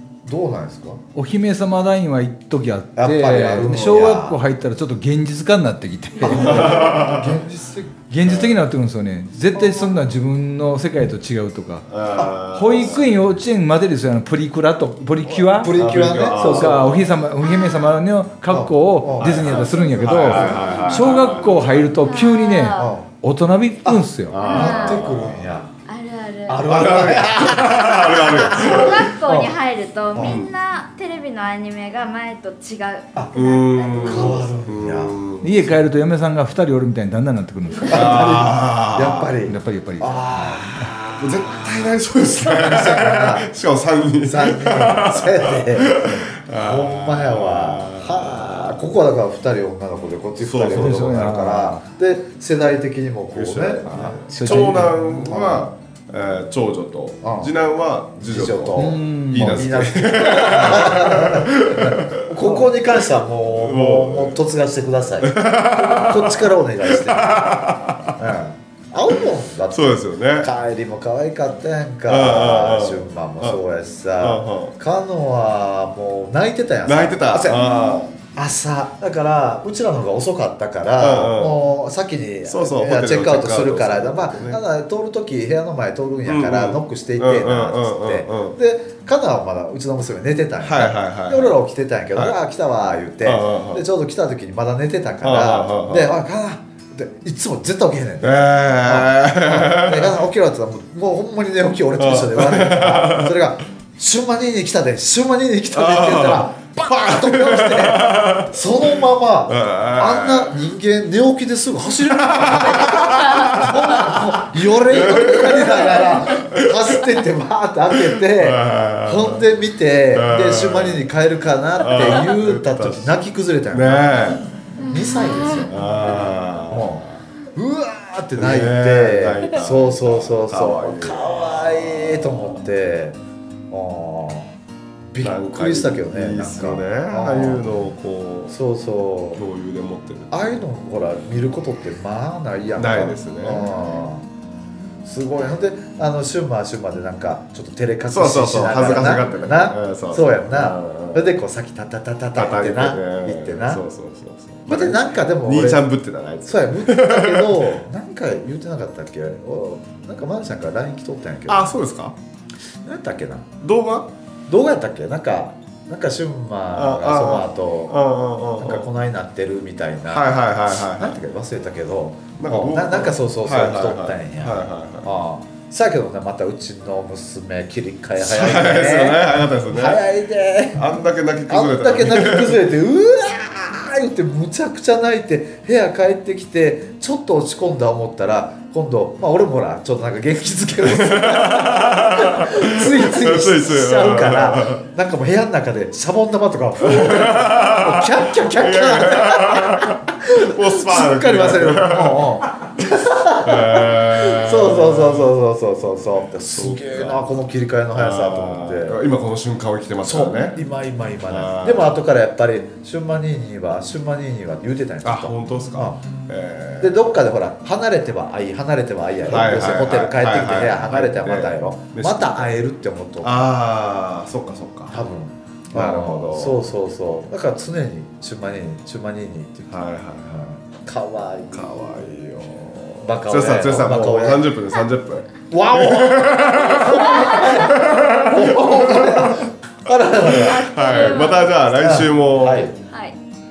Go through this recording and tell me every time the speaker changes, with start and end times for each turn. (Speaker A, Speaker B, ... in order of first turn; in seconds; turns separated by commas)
Speaker A: 0.2-1.0, Speaker B: 1.1-7.1, Speaker A: 3.0-4.4, Speaker A: 6.2-8.0, Speaker C: 6.3-7.4, Speaker B: 8.1-11.9, Speaker C: 8.2-8.6, Speaker A: 9.5-9.9, Speaker C: 11.9-13.3, Speaker B: 12.4-24.5, Speaker A: 15.2-17.1, Speaker C: 15.7-17.2, Speaker D: 17.4-18.0, Speaker A: 18.5-20.5, Speaker C: 19.2-21.8, Speaker D: 22.0-22.9, Speaker A: 22.7-23.1, Speaker A: 23.8-25.7, Speaker C: 24.3-25.6, Speaker D: 24.3-25.1, Speaker D: 25.9-26.9, Speaker A: 26.5-29.6, Speaker C: 26.7-29.1, Speaker D: 28.5-34.5, Speaker A: 30.1-30.4, Speaker C: 30.2-30.5, Speaker C: 33.3-35.6, Speaker A: 33.9-35.2, Speaker B: 35.4-38.5, Speaker C: 37.9-39.3, Speaker A: 37.9-41.6, Speaker B: 39.4-40.9, Speaker C: 41.2-49.0, Speaker A: 42.4-43.5, Speaker A: 44.2-55.7, Speaker C: 50.4-51.1, Speaker B: 50.7-51.9, Speaker C: 53.3-64.4, Speaker B: 54.3-55.0, Speaker A: 57.2-57.5, Speaker A: 58.2-77.7, Speaker B: 58.8-59.7, Speaker C: 65.2-68.3, Speaker C: 69.7-70.5, Speaker C: 72.1-73.6, Speaker C: 74.2-74.8, Speaker C: 76.8-78.1, Speaker D: 77.7-78.1, Speaker A: 78.3-126.2, Speaker C: 81.0-81.6, Speaker C: 82.5-84.6, Speaker C: 86.2-88.6, Speaker C: 90.6-91.6, Speaker C: 93.2-93.8, Speaker C: 95.2-96.2, Speaker C: 98.2-100.2, Speaker C: 102.0-103.5, Speaker C: 105.7-110.7, Speaker C: 112.1-117.1, Speaker C: 117.9-119.5, Speaker C: 120.1-121.1, Speaker C: 121.8-124.5, Speaker D: 124.8-126.2, Speaker C: 125.7-127.2, Speaker A: 126.7-133.2, Speaker C: 128.4-132.7, Speaker A: 133.7-134.5, Speaker A: 135.1-137.9, Speaker C: 135.2-138.5, Speaker A: 138.5-139.4, Speaker C: 139.3-140.4, Speaker A: 140.3-144.3, Speaker C: 142.8-143.7, Speaker A: 145.1-153.8, Speaker C: 148.1-151.3, Speaker C: 152.3-157.9, Speaker A: 154.7-155.9, Speaker A: 156.4-161.8, Speaker C: 161.5-162.2, Speaker A: 162.8-163.5, Speaker C: 163.6-164.1, Speaker A: 164.5-168.0, Speaker C: 166.7-168.9, Speaker A: 168.6-180.8, Speaker C: 170.1-171.2, Speaker C: 172.4-175.2, Speaker C: 178.2-180.1, Speaker C: 180.7-182.7, Speaker A: 181.5-209.0, Speaker C: 190.8-194.9, Speaker C: 196.8-202.7, Speaker C: 203.3-205.3, Speaker C: 206.5-207.3, Speaker C: 207.9-210.6, Speaker A: 210.0-216.0, Speaker C: 211.3-212.0, Speaker C: 215.0-217.0, Speaker A: 216.8-223.5, Speaker C: 219.2-222.5, Speaker C: 223.2-225.0, Speaker A: 224.9-232.0, Speaker C: 225.7-226.6, Speaker C: 229.7-230.6, Speaker C: 231.5-239.5, Speaker A: 233.0-234.6, Speaker A: 235.5-242.8, Speaker D: 236.7-237.9, Speaker C: 240.2-242.7, Speaker D: 240.3-241.6, Speaker D: 242.8-243.2